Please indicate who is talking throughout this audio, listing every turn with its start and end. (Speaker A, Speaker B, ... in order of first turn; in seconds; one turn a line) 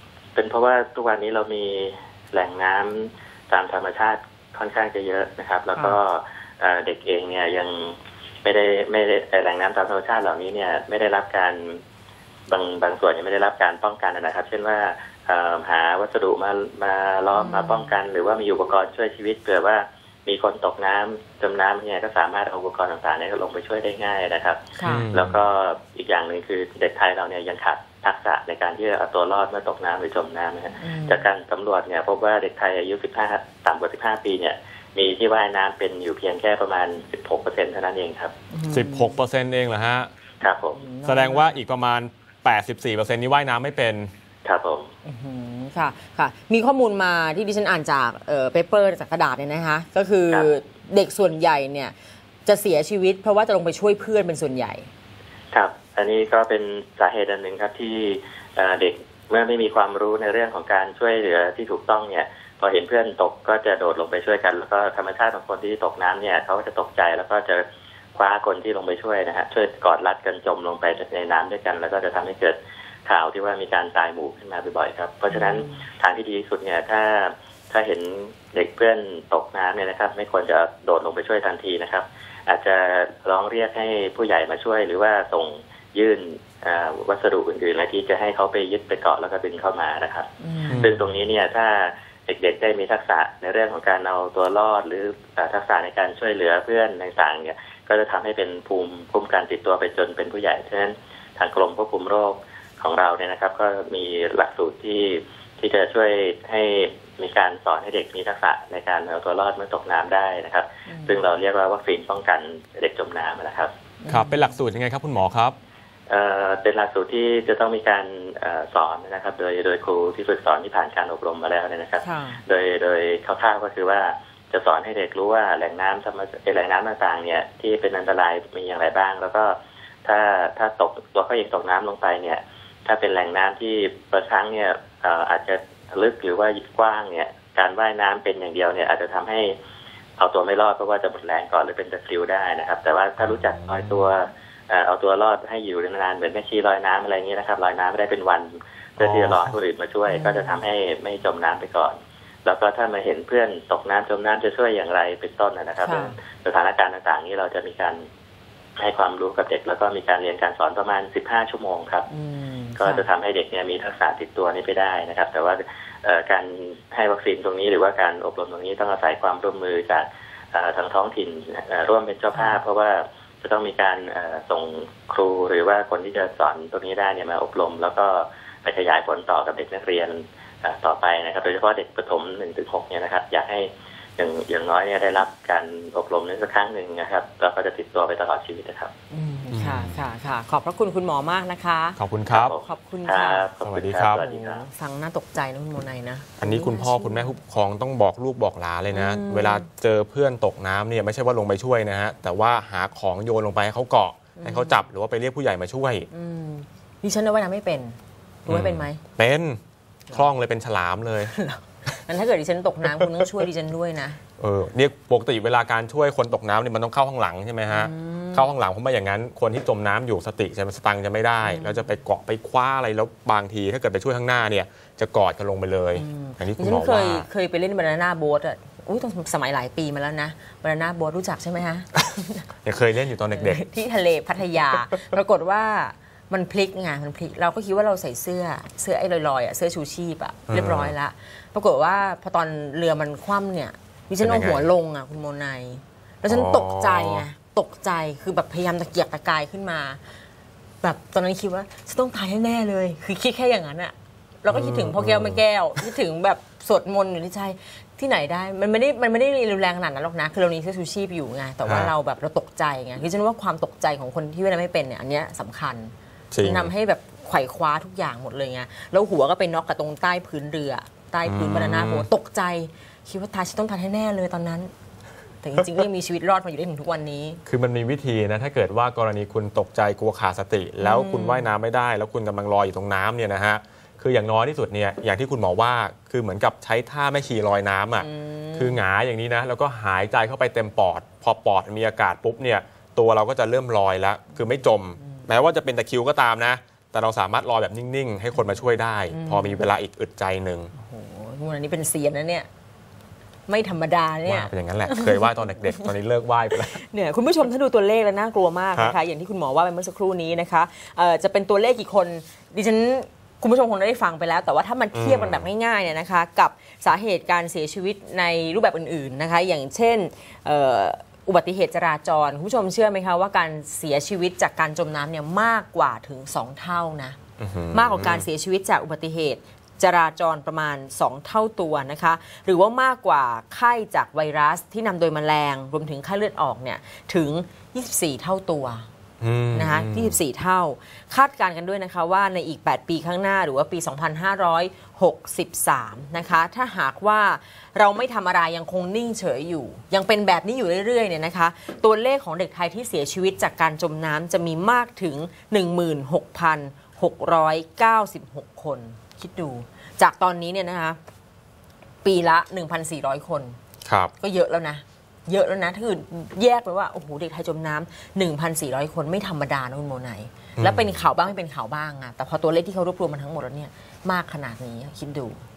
Speaker A: 0.3-11.8
Speaker A: 12.5-38.3
Speaker B: 17.4-17.9
Speaker B: 24.7-25.1
Speaker C: 24.8-25.4
Speaker B: 30.8-31.3
Speaker B: 38.5-39.2
Speaker C: 38.7-40.1
Speaker A: 40.4-40.8
Speaker B: 40.8-41.6
Speaker C: 41.0-44.1
Speaker A: 44.4-44.9
Speaker B: 45.0-51.9
Speaker B: 52.4-54.9
Speaker A: 55.5-113.7
Speaker B: 75.3-75.8
Speaker B: 90.4-90.9
Speaker C: 90.7-91.2
Speaker B: 110.9-111.2
Speaker B: 114.0-114.6
Speaker C: 114.1-115.5
Speaker A: 116.1-129.5
Speaker B: 122.0-122.4
Speaker A: 130.0-139.5
Speaker A: 140.2-158.0
Speaker C: 143.2-144.1
Speaker C: 149.0-149.6
Speaker B: 150.1-150.6
Speaker B: 155.8-156.2
Speaker A: 158.8-162.1
Speaker B: 162.1-163.0
Speaker A: 162.8-188.9
Speaker B: 172.3-172.6
Speaker B: 189.1-192.0
Speaker C: 189.5-190.0
Speaker C: 192.0-192.5
Speaker A: 192.3-194.7
Speaker B: 192.6-193.5
Speaker C: 193.6-194.2
Speaker B: 194.2-197.3
Speaker C: 196.4-206.1
Speaker B: 198.9-199.6
Speaker B: 204.3-204.8
Speaker B: 206.1-209.0
Speaker C: 208.4-211.3
Speaker B: 211.3-214.2
Speaker C: 214.4-227.3
Speaker B: 217.7-218.5
Speaker B: 221.4-221.9
Speaker B: 225.9-232.4
Speaker C: 232.6-233.6
Speaker B: 233.3-250.0
Speaker C: 240.5-240.9
Speaker C: 244.2-244.6
Speaker C: 246.3-247.2
Speaker B: 250.8-274.7
Speaker C: 254.5-255.4
Speaker C: 261.6-261.9
Speaker C: 266.3-266.7
Speaker C: 271.2-272.1
Speaker B: 275.4-277.4
Speaker C: 277.4-300.7
Speaker B: 280.8-281.5
Speaker B: 288.0-288.8
Speaker B: 295.0-295.3
Speaker B: 299.1-299.6
Speaker B: 300.7-302.5
Speaker B: 303.5-305.9
Speaker C: 304.2-306.8
Speaker B: 306.7-327.2
Speaker C: 314.9-315.5
Speaker C: 327.4-328.2
Speaker B: 327.7-338.9
Speaker C: 339.2-340.2
Speaker B: 339.5-361.0
Speaker B: 362.0-363.6
Speaker C: 363.8-364.1
Speaker B: 364.2-375.4
Speaker C: 370.6-371.0